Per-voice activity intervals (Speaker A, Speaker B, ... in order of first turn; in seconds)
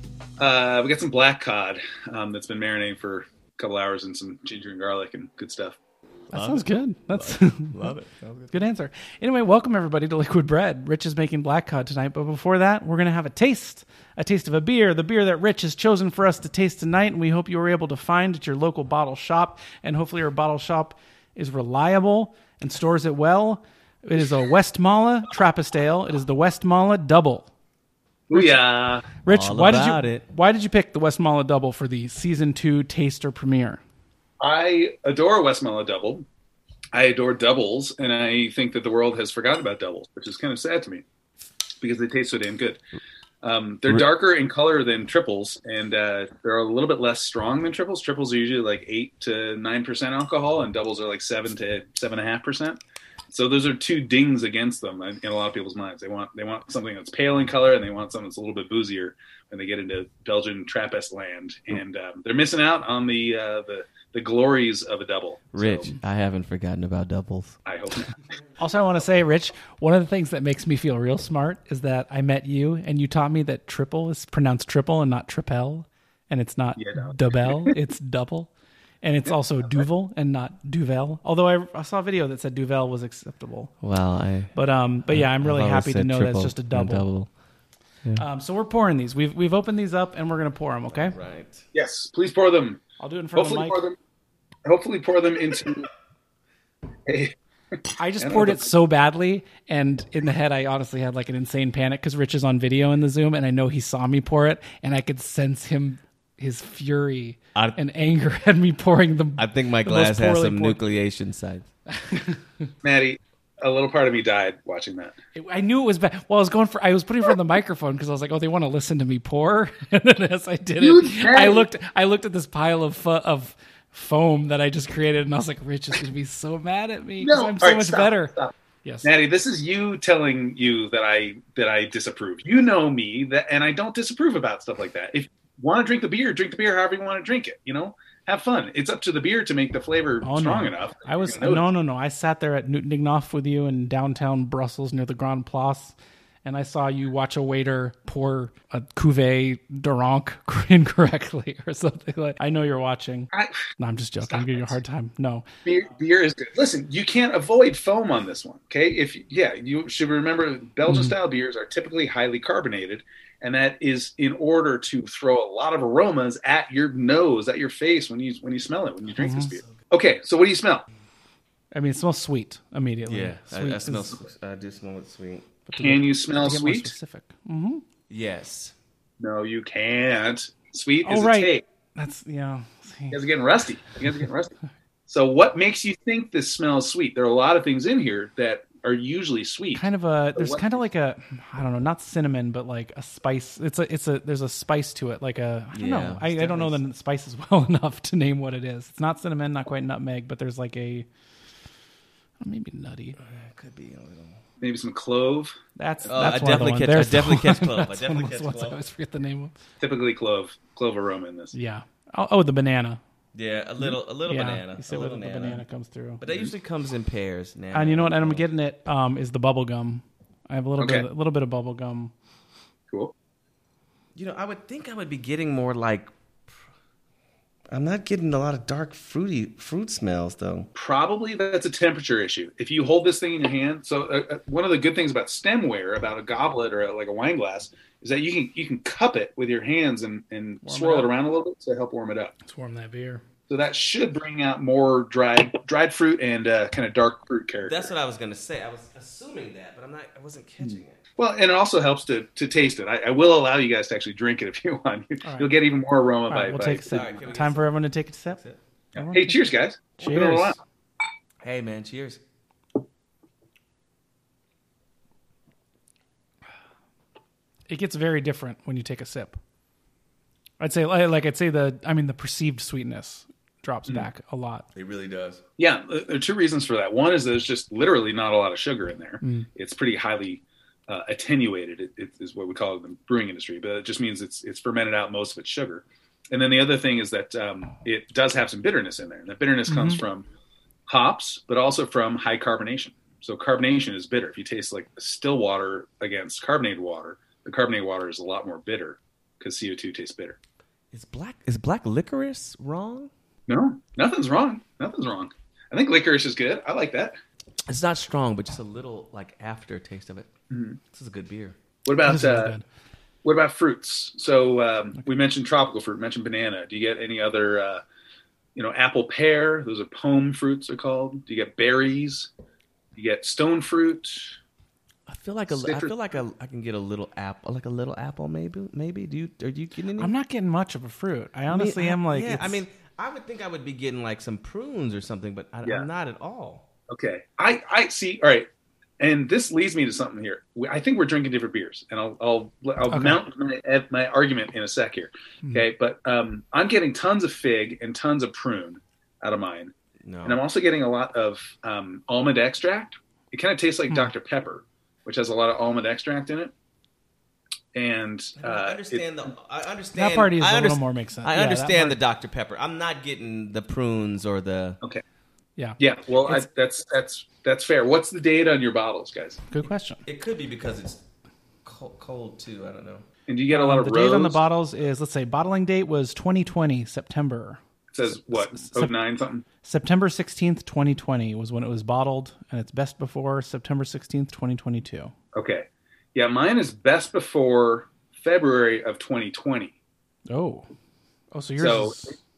Speaker A: 0.4-5.8, 28.3-29.1, 34.4-36.3, 36.9-41.0, 41.8-42.8, 43.4-52.8, 53.3-65.9, 67.6-68.2, 76.8-77.7, 79.2-79.8, 91.7-92.8, 93.3-94.0, 94.6-95.9, 97.0-97.3, 98.2-98.7, 112.8-115.1, 120.8-121.7, 127.2-128.5, 129.0-141.7, 153.3-153.6, 154.2-154.8, 155.6-170.8, 175.8-176.9, 179.2-181.6, 183.1-184.5, 185.1-190.8, 204.6-205.5, 209.8-211.5, 220.8-221.1, 230.7-242.3, 243.5-247.9, 250.6-257.0, 258.9-260.6, 275.6-290.2, 290.9-300.4, 303.5-307.2, 310.5-310.8, 311.9-312.6, 313.2-317.8, 318.5-322.3, 322.9-324.4, 325.5-326.1, 336.9-338.5, 339.0-349.7, 350.2-356.5, 357.7-359.1, 365.8-369.4, 373.3-374.4, 377.9-379.4, 385.3-389.7, 391.6-392.1
Speaker B: 6.3-8.7, 29.3-30.2, 65.5-67.6, 83.8-84.5, 85.1-87.3, 90.9-91.7, 109.4-111.7, 173.1-175.5, 178.1-178.7, 195.7-196.8, 203.2-204.4, 206.1-208.8, 213.3-215.6, 216.2-218.4, 224.2-226.5, 227.7-230.7, 247.6-251.0, 256.8-257.7, 258.3-258.6, 261.4-262.2, 274.7-275.4, 300.9-303.1, 307.7-310.3, 310.9-311.6, 325.1-330.1, 331.5-336.6, 350.0-350.4, 358.4-364.8, 370.0-371.0, 371.6-373.0
Speaker C: 6.3-7.9, 8.5-27.5, 28.3-28.6, 29.1-33.8, 68.6-83.8, 84.5-87.1, 88.2-91.2, 93.0-93.8, 98.0-111.0, 111.9-112.7, 115.3-129.1, 140.2-155.4, 160.9-161.1, 169.1-169.6, 171.7-174.2, 175.7-177.8, 181.0-183.2, 189.7-201.1, 202.4-203.2, 205.8-209.5, 211.5-213.0, 213.8-216.2, 217.7-222.1, 240.6-241.1, 242.4-243.2, 255.2-255.5, 256.3-258.4, 258.9-260.6, 267.7-269.4, 270.6-274.6, 279.2-279.5, 289.7-290.0, 312.0-312.6, 330.0-332.6, 342.9-343.2, 359.9-362.0, 365.6-366.4, 369.5-370.0, 373.5-378.9, 379.6-385.1, 390.3-390.7, 391.3-392.2